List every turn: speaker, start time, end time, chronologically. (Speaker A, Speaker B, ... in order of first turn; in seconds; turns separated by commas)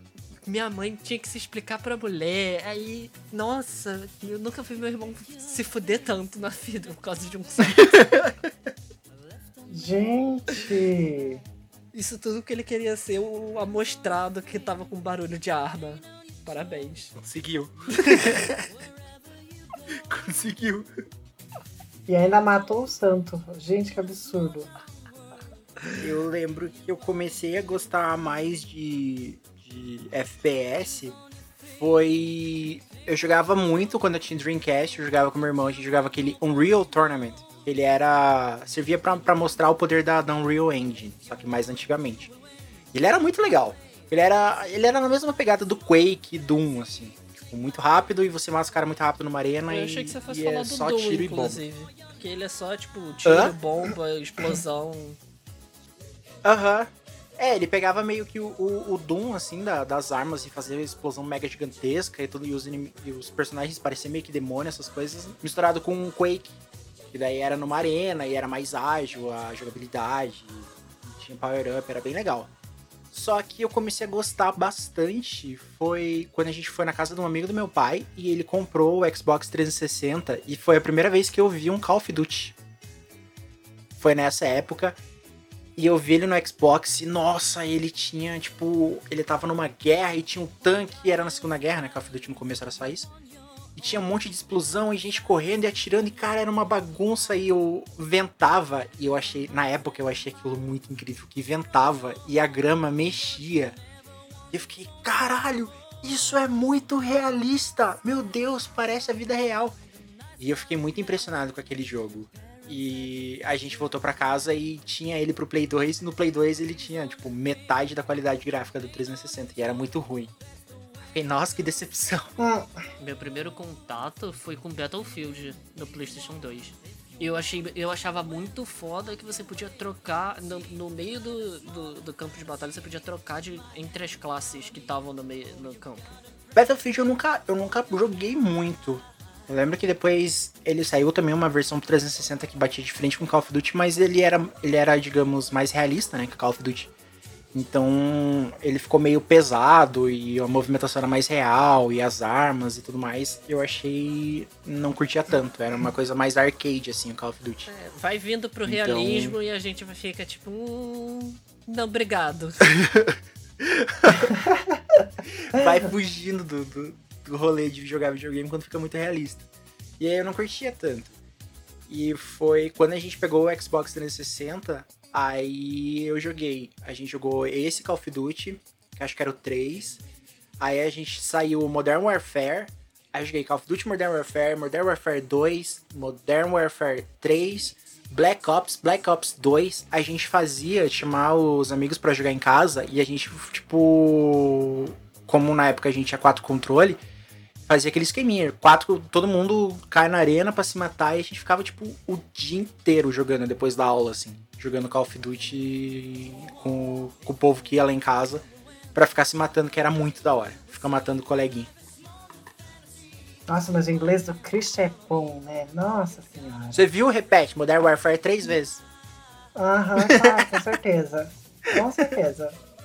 Speaker A: 0.5-8.0, Speaker B: 8.0-8.3, Speaker C: 9.7-11.4, Speaker A: 11.9-17.1, Speaker B: 17.2-18.6, Speaker A: 18.1-18.4, Speaker B: 20.1-21.0, Speaker C: 22.1-24.7, Speaker B: 26.0-31.2, Speaker B: 31.7-42.3, Speaker B: 42.9-51.6, Speaker A: 49.7-55.2, Speaker B: 53.2-53.5, Speaker B: 56.4-66.6, Speaker B: 67.1-72.5, Speaker B: 73.1-82.6, Speaker B: 84.0-85.0, Speaker B: 85.8-93.1, Speaker B: 93.8-103.8, Speaker B: 104.5-109.8, Speaker B: 110.4-120.3, Speaker B: 121.0-122.3, Speaker C: 122.4-122.7, Speaker A: 123.0-136.2, Speaker B: 136.6-146.9, Speaker B: 147.5-157.7, Speaker A: 157.7-162.7, Speaker B: 158.7-159.4, Speaker B: 162.8-164.3, Speaker C: 164.2-165.0, Speaker B: 165.4-169.5, Speaker B: 170.0-171.1, Speaker B: 171.9-180.0, Speaker B: 180.6-197.0, Speaker B: 197.7-211.7, Speaker C: 213.5-216.8, Speaker B: 216.7-218.8, Speaker C: 219.6-222.6, Speaker B: 220.0-220.6